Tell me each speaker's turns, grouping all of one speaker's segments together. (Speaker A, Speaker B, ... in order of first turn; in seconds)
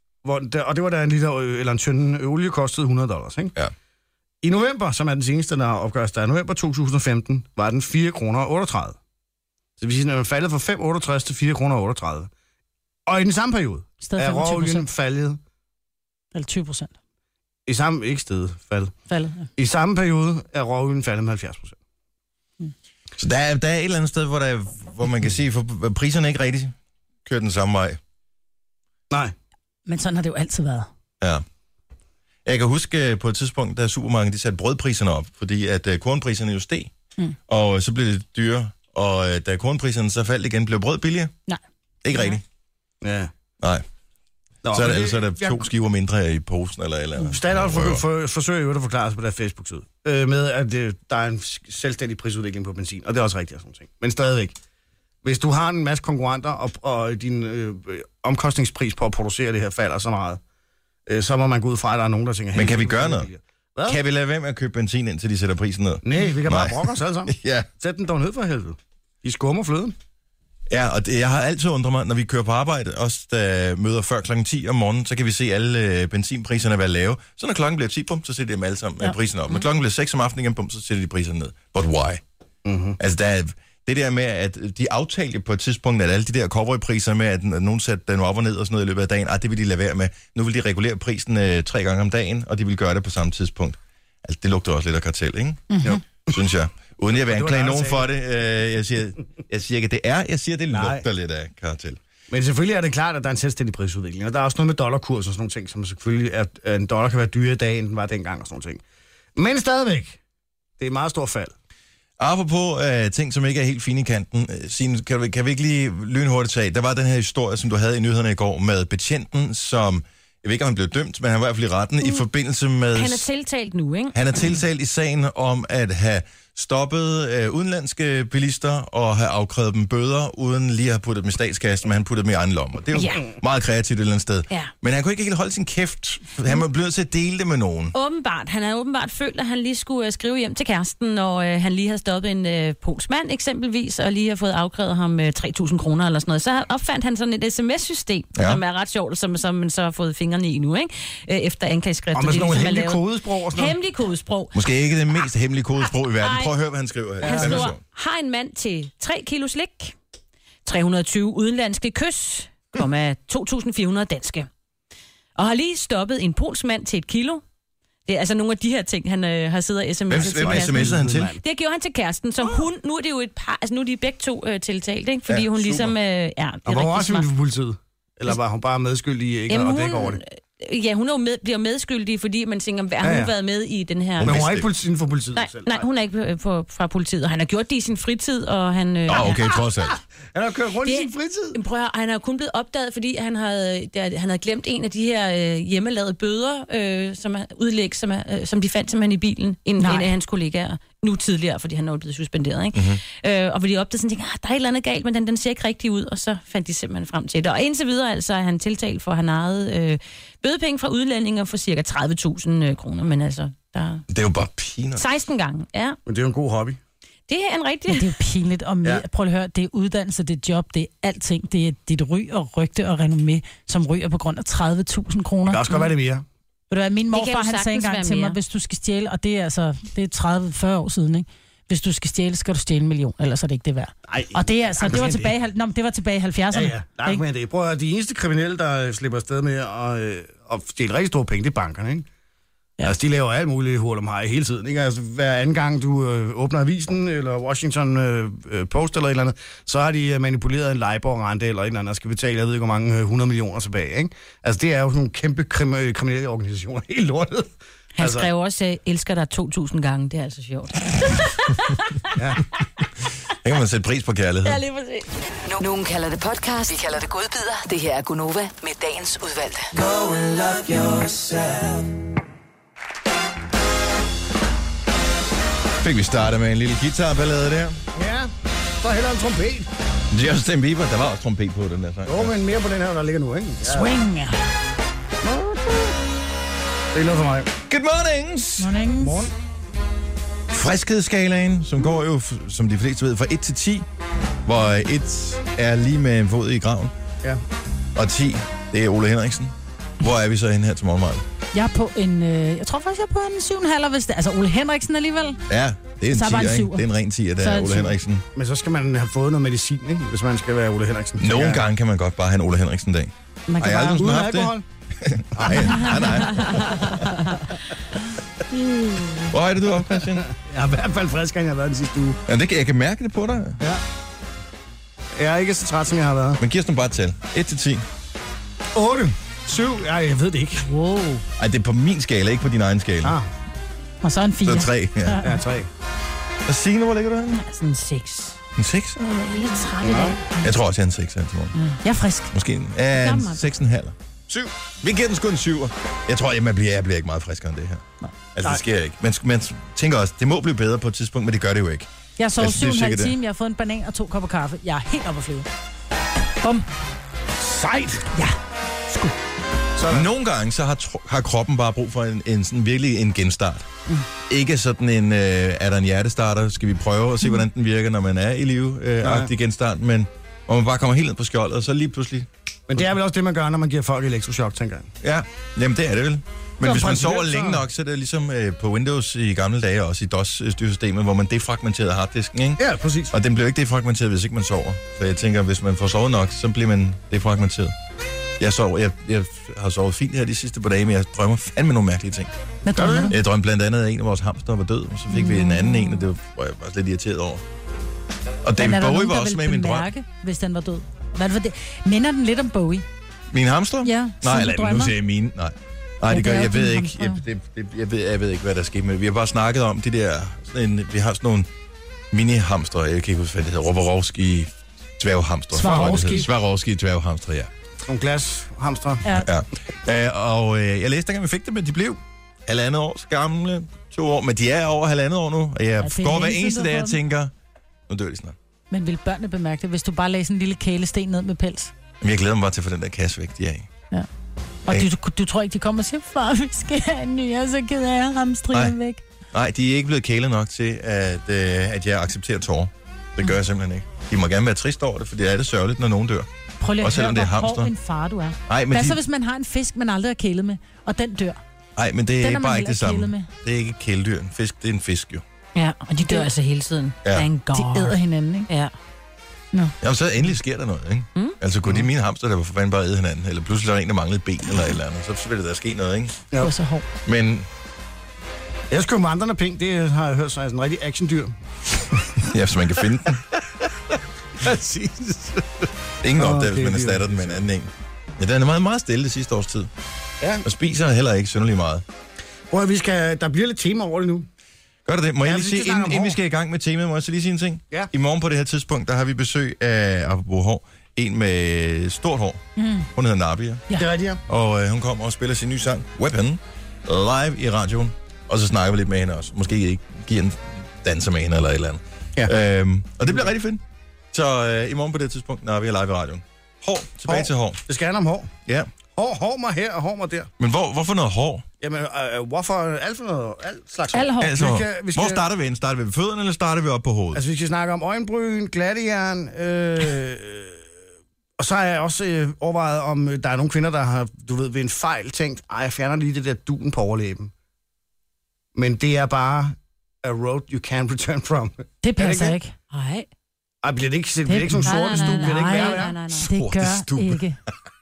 Speaker A: 0.2-3.5, 4.4-9.0, 9.8-12.3, 13.1-15.4, 17.6-18.9, 19.6-21.8, 43.0-43.3, 44.6-45.6, 47.2-54.5, 55.2-60.4, 61.1-64.0, 66.0-69.9, 82.6-83.0, 95.8-96.4, 97.2-98.1, 100.7-101.0, 102.3-108.8, 109.3-110.2, 110.8-111.5, 152.1-153.7, 157.2-157.7, 170.1-171.4, 176.7-180.2, 183.0-183.3, 184.2-185.8, 189.1-189.6, 190.3-191.6, 216.1-216.8, 225.5-226.2, 234.1-235.3, 236.5-242.1, 242.8-258.3, 262.1-262.4, 277.9-279.7, 282.1-283.9, 285.2-286.0, 286.9-287.5, 289.0-289.3, 308.3-311.6, 313.9-314.6, 315.3-317.0, 318.6-319.1, 319.9-322.2, 325.1-326.4, 328.7-330.6, 333.0-333.3, 335.2-335.7, 339.8-340.2, 357.4-358.1, 359.8-360.1, 369.0-369.3, 372.7-374.9, 376.6-377.6, 382.6-383.1, 392.7-393.1, 415.6-416.3, 417.9-419.0, 468.7-471.3, 474.4-477.4, 482.5-484.3, 485.2-486.2, 493.7-494.2, 507.1-508.3, 508.9-510.3, 511.6-515.2, 517.1-520.6, 521.4-527.3, 528.5-532.4, 533.6-536.0
Speaker B: 14.0-14.9, 16.3-16.9, 19.1-19.5, 29.9-30.9, 95.7-96.0, 199.8-200.1, 217.9-225.6, 226.7-237.2, 283.6-284.4, 288.6-289.3, 301.5-305.4, 306.1-308.0, 313.5-314.0, 334.0-335.4, 341.8-342.3, 352.2-355.5, 358.9-359.1, 392.6-393.1, 395.2-395.7, 398.6-402.8, 403.8-404.9, 406.1-407.2, 415.5-416.3, 425.8-427.0, 428.7-431.7, 434.6-439.0, 446.6-451.4, 452.2-453.3, 457.5-458.5, 466.4-466.9, 492.6-492.9, 513.9-514.5, 531.8-532.5, 534.2-537.4
Speaker C: 23.2-28.0, 32.4-36.9, 37.5-41.3, 42.0-42.4, 44.7-48.0, 62.5-63.3, 63.9-67.7, 70.7-82.2, 83.0-102.0, 112.2-123.3, 124.1-137.9, 148.3-148.6, 154.5-157.8, 170.1-171.4, 175.3-175.9, 184.2-184.7, 189.1-190.0, 202.7-203.0, 214.1-215.0, 263.4-264.6, 270.0-271.7, 275.8-277.8, 280.1-282.3, 287.7-288.7, 290.5-293.9, 294.4-296.9, 297.9-301.2, 305.5-308.2, 311.2-317.2, 319.3-320.3, 322.3-323.6, 326.4-327.8, 331.4-333.2, 334.4-335.2, 336.4-337.4, 338.6-339.1, 340.4-341.5, 342.3-353.1, 359.9-363.7, 364.3-372.3, 375.0-387.7, 388.4-392.3, 393.1-397.4, 398.4-399.9, 403.3-411.5, 412.1-417.5, 419.2-427.3, 427.9-428.4, 432.0-433.7, 439.3-446.3, 446.8-447.7, 448.5-449.0, 451.8-455.2, 459.8-466.2, 467.1-467.5, 472.2-473.2, 476.0-479.7, 480.4-481.8, 484.9-492.4, 492.9-493.7, 494.3-503.6, 504.1-507.6, 510.4-511.4, 514.2-517.2, 536.1-537.2
Speaker D: 122.9-124.5, 132.9-133.2, 137.9-154.5, 156.2-156.5, 157.2-159.9, 160.6-164.5, 165.3-167.4, 168.1-177.3, 179.5-184.4, 185.3-189.4, 190.8-214.0, 214.9-216.0, 217.3-218.1, 227.1-228.4, 258.0-262.0, 264.4-265.1, 316.3-316.6, 330.6-331.2, 337.3-338.4, 339.2-340.4, 342.9-343.4, 455.5-458.0, 532.7-533.1, 534.6-536.3
Speaker E: 265.4-269.7